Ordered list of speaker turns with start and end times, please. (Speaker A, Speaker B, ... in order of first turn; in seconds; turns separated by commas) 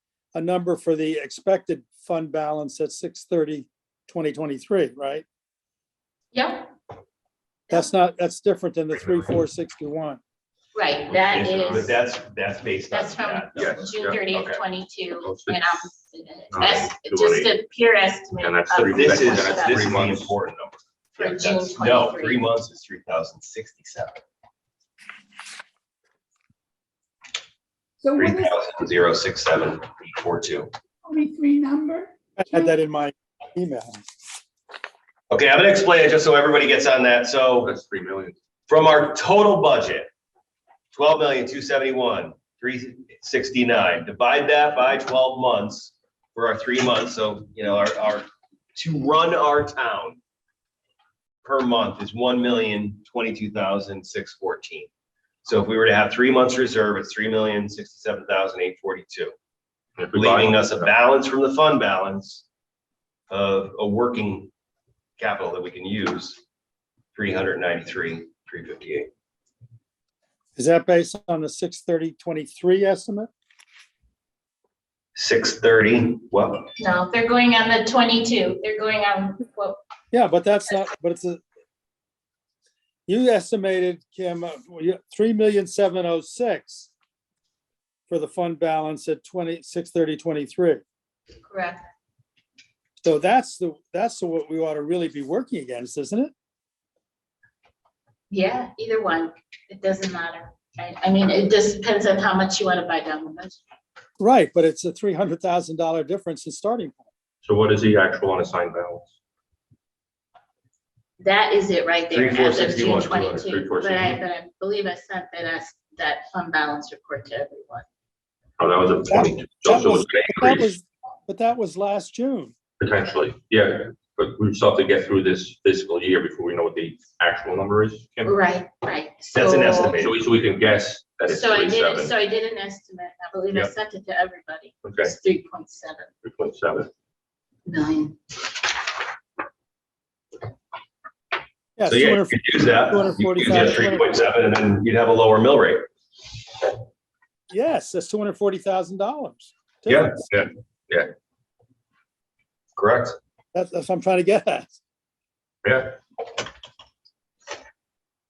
Speaker A: 0.3-5.2, Speaker B: 6.3-6.7, Speaker A: 7.7-10.2, Speaker C: 8.9-9.3, Speaker B: 10.7-12.0, Speaker D: 11.3-13.9, Speaker C: 11.6-11.9, Speaker B: 12.9-19.9, Speaker C: 13.6-14.6, Speaker C: 15.2-15.9, Speaker C: 16.5-17.6, Speaker C: 18.4-20.4, Speaker D: 18.9-24.2, Speaker B: 21.2-22.5, Speaker E: 28.0-28.5, Speaker D: 28.1-30.7, Speaker E: 31.1-32.7, Speaker A: 32.4-34.0, Speaker D: 35.3-37.7, Speaker C: 37.6-38.4, Speaker D: 38.7-40.1, Speaker D: 40.9-50.2, Speaker D: 51.4-54.9, Speaker D: 55.5-59.3, Speaker C: 60.0-60.9, Speaker D: 60.1-62.5, Speaker D: 63.3-64.5, Speaker D: 65.2-66.4, Speaker D: 67.1-69.1, Speaker A: 70.6-73.3, Speaker D: 75.2-76.7, Speaker B: 76.8-79.8, Speaker A: 80.1-81.4, Speaker A: 83.1-86.9, Speaker A: 88.1-90.8, Speaker B: 91.4-91.9, Speaker A: 93.0-96.3, Speaker B: 98.3-103.6, Speaker A: 104.2-107.1, Speaker C: 107.4-109.1, Speaker B: 111.2-117.9, Speaker D: 112.1-113.4, Speaker C: 112.4-114.2, Speaker C: 118.6-120.7, Speaker A: 119.1-122.5, Speaker C: 122.8-128.4, Speaker B: 128.2-130.0, Speaker D: 129.3-130.2, Speaker C: 129.9-132.2, Speaker B: 131.3-136.1, Speaker C: 134.8-135.1, Speaker C: 136.2-136.9, Speaker B: 137.7-138.2, Speaker A: 141.8-144.1, Speaker D: 141.9-145.8, Speaker A: 147.5-150.2, Speaker D: 149.9-150.2, Speaker C: 150.3-151.1, Speaker D: 152.8-153.2, Speaker A: 153.5-154.8, Speaker C: 155.6-156.0